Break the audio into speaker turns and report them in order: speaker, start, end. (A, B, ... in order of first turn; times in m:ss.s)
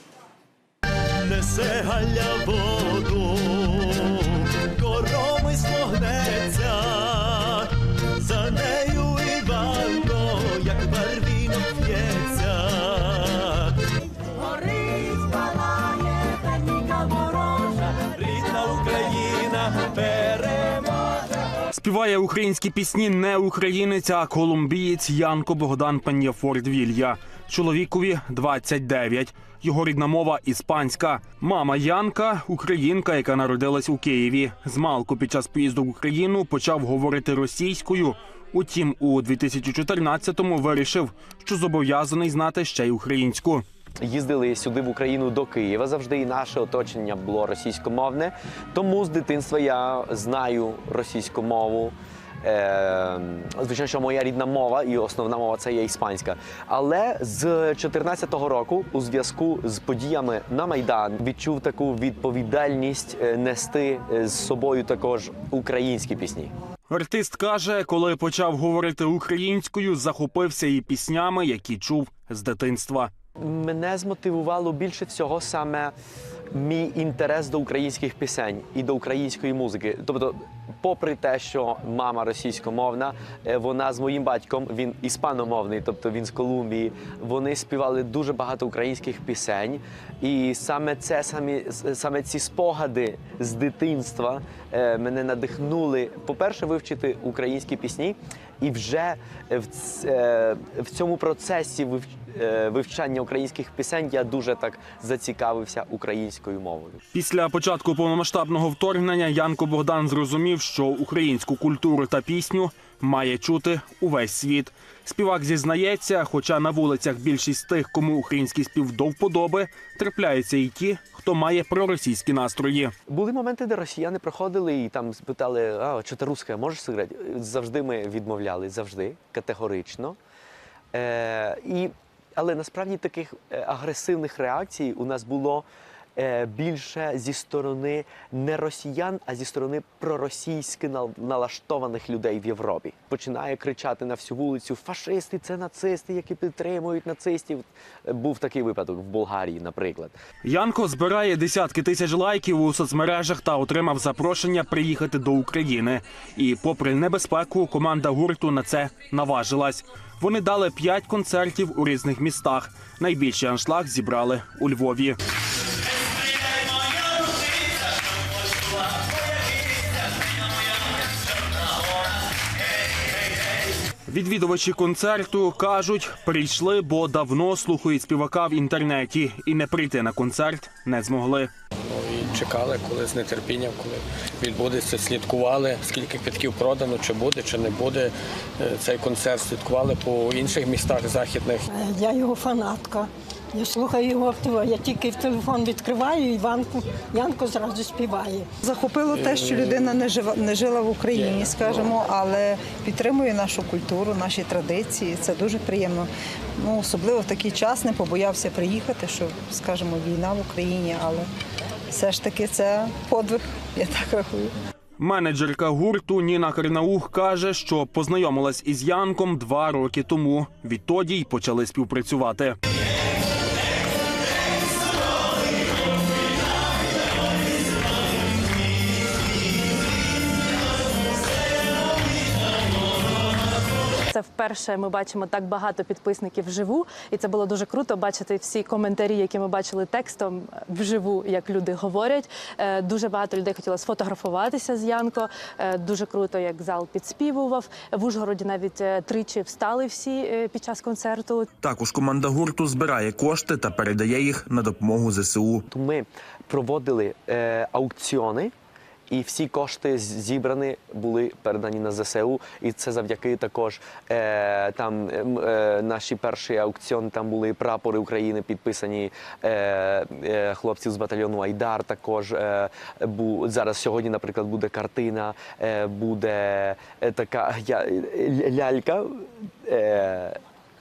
0:01.3-0:04.0 A
0:04.6-0:07.6 A
0:08.2-0:13.4 A
0:14.6-0:15.8 A
0:16.5-0:20.8 A
0:21.7-0:43.6 B
0:44.0-1:06.5 A
1:06.9-1:13.1 B
1:13.4-1:15.9 A
1:16.5-1:47.0 A
1:47.1-2:02.9 B
2:03.1-2:10.2 A
2:10.9-2:15.6 A
2:16.2-2:30.2 A
2:30.4-2:45.2 B
2:54.1-3:01.5 B
3:01.8-3:11.7 C
3:11.7-3:18.5 D
3:18.6-3:26.1 E
3:26.6-3:31.3 E
3:31.9-3:34.5 E
3:35.0-3:42.6 B
3:54.1-4:11.5 F
4:11.6-4:15.6 G
4:15.7-4:18.5 A
4:19.1-4:40.4 A